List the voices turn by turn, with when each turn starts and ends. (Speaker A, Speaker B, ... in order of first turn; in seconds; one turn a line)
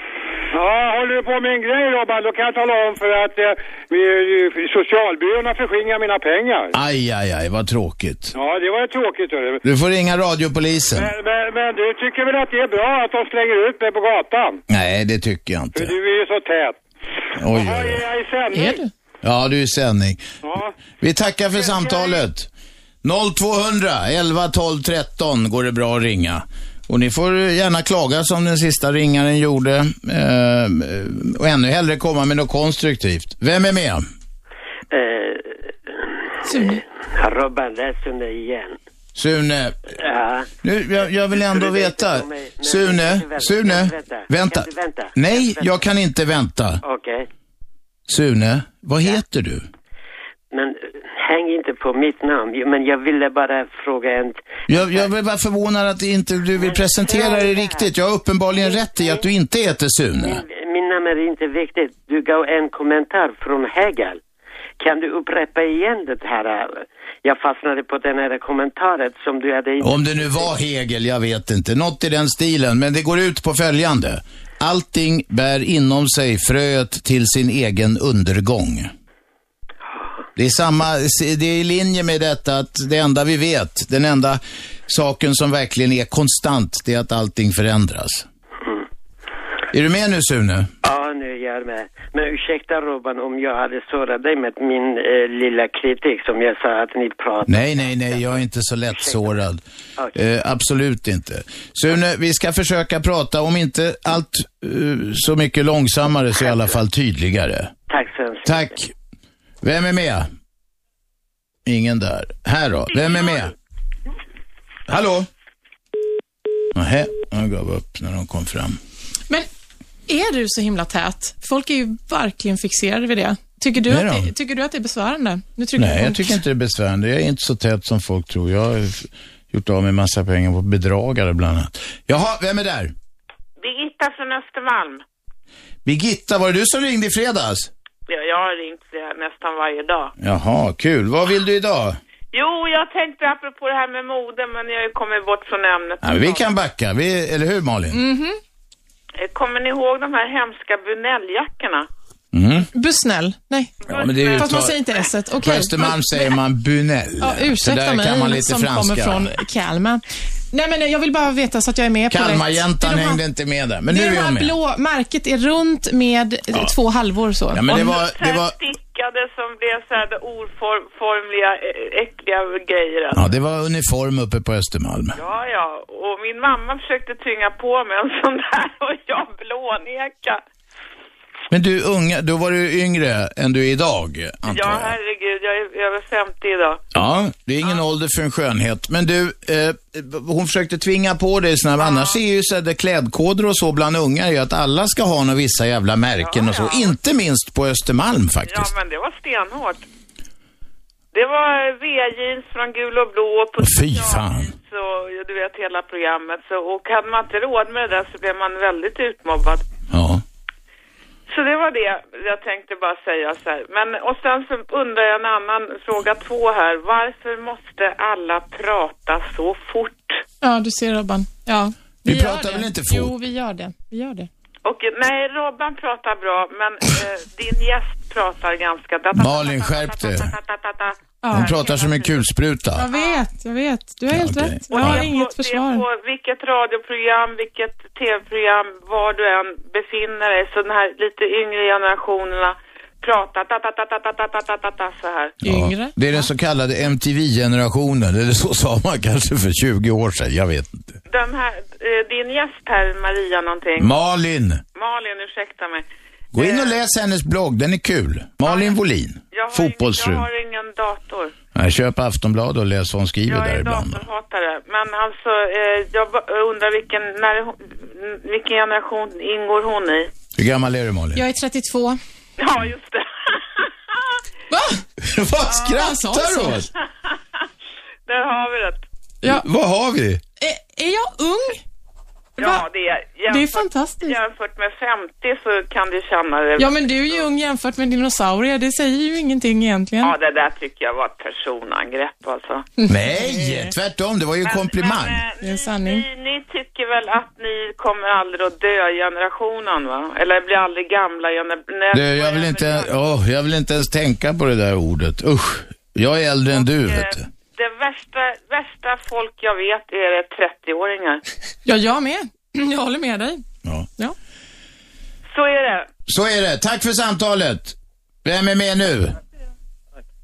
Speaker A: 0.5-6.7
Speaker B: 6.7-8.3
Speaker A: 8.3-9.6
Speaker B: 9.6-11.1
Speaker A: 11.0-14.6
Speaker B: 14.7-15.9
Speaker A: 15.8-16.8
Speaker B: 17.4-18.0
Speaker A: 17.5-18.8
Speaker C: 18.5-18.9
Speaker B: 19.2-20.2
Speaker A: 20.4-20.7
Speaker B: 21.0-22.5
Speaker A: 21.6-22.2
Speaker B: 23.0-34.0
Speaker D: 34.9-38.8
Speaker C: 36.5-36.8
Speaker B: 39.1-39.9
Speaker D: 40.0-40.5
Speaker B: 40.6-46.8
Speaker D: 41.4-45.8
Speaker D: 46.8-47.3
Speaker B: 48.1-49.7
Speaker D: 50.5-55.1
Speaker B: 54.7-60.4
Speaker D: 56.6-57.9
Speaker D: 58.6-59.2
Speaker D: 60.1-64.2
Speaker D: 64.8-70.5
Speaker B: 69.8-78.9
Speaker B: 80.4-88.3
Speaker B: 89.7-90.7
Speaker D: 90.8-98.4
Speaker B: 97.5-99.6
Speaker D: 98.9-99.4
Speaker B: 100.2-107.7
Speaker D: 106.4-106.7
Speaker D: 107.9-108.8
Speaker B: 108.5-108.9
Speaker B: 109.6-110.3
Speaker B: 111.7-113.5
Speaker B: 114.9-115.3
Speaker B: 116.7-118.8
Speaker C: 120.1-126.3
Speaker B: 123.9-124.3
Speaker B: 125.8-132.9
Speaker E: 133.6-135.0
Speaker B: 135.8-137.7
Speaker E: 138.1-140.1
Speaker B: 140.2-142.0
Speaker E: 142.3-146.5
Speaker B: 146.0-148.0
Speaker C: 147.9-148.4
Speaker E: 149.2-151.9
Speaker B: 152.3-152.7
Speaker C: 152.7-156.4
Speaker E: 153.8-154.7
Speaker B: 153.9-154.8
Speaker B: 155.4-159.3
Speaker C: 157.2-163.2
Speaker B: 162.1-164.6
Speaker C: 163.9-167.9
Speaker B: 167.5-168.6
Speaker E: 167.7-173.3
Speaker B: 173.1-175.2
Speaker E: 175.2-180.4
Speaker B: 181.5-185.0
Speaker E: 184.5-186.8
Speaker B: 186.9-198.7
Speaker E: 191.8-192.2
Speaker E: 196.2-196.9
Speaker E: 198.5-199.9
Speaker E: 201.1-209.6
Speaker B: 203.6-204.5
Speaker B: 209.9-210.2
Speaker E: 211.3-220.2
Speaker C: 220.4-224.3
Speaker B: 222.0-223.1
Speaker E: 224.7-232.2
Speaker B: 229.1-230.3
Speaker C: 231.2-231.6
Speaker B: 231.3-232.9
Speaker C: 232.8-235.8
Speaker E: 232.9-233.2
Speaker B: 234.1-235.1
Speaker E: 234.7-245.4
Speaker B: 245.4-251.0
Speaker C: 245.4-246.3
Speaker E: 251.1-253.9
Speaker B: 253.8-254.6
Speaker E: 254.8-256.8
Speaker B: 256.3-260.3
Speaker E: 258.4-258.8
Speaker E: 259.3-261.3
Speaker B: 261.6-264.1
Speaker E: 263.3-270.1
Speaker B: 270.4-271.2
Speaker C: 271.1-272.0
Speaker E: 272.4-274.0
Speaker C: 274.5-274.8
Speaker B: 275.0-276.7
Speaker C: 275.6-276.7
Speaker E: 278.1-278.9
Speaker B: 279.2-280.2
Speaker C: 280.4-281.6
Speaker C: 282.4-282.6
Speaker E: 282.4-287.2
Speaker C: 283.3-284.2
Speaker C: 286.6-290.1
Speaker E: 290.0-292.7
Speaker C: 292.8-293.7
Speaker B: 292.9-295.2
Speaker E: 294.5-302.9
Speaker C: 295.4-296.1
Speaker B: 301.9-307.3
Speaker E: 306.6-311.2
Speaker C: 311.6-313.4
Speaker E: 315.3-315.9
Speaker B: 316.1-319.2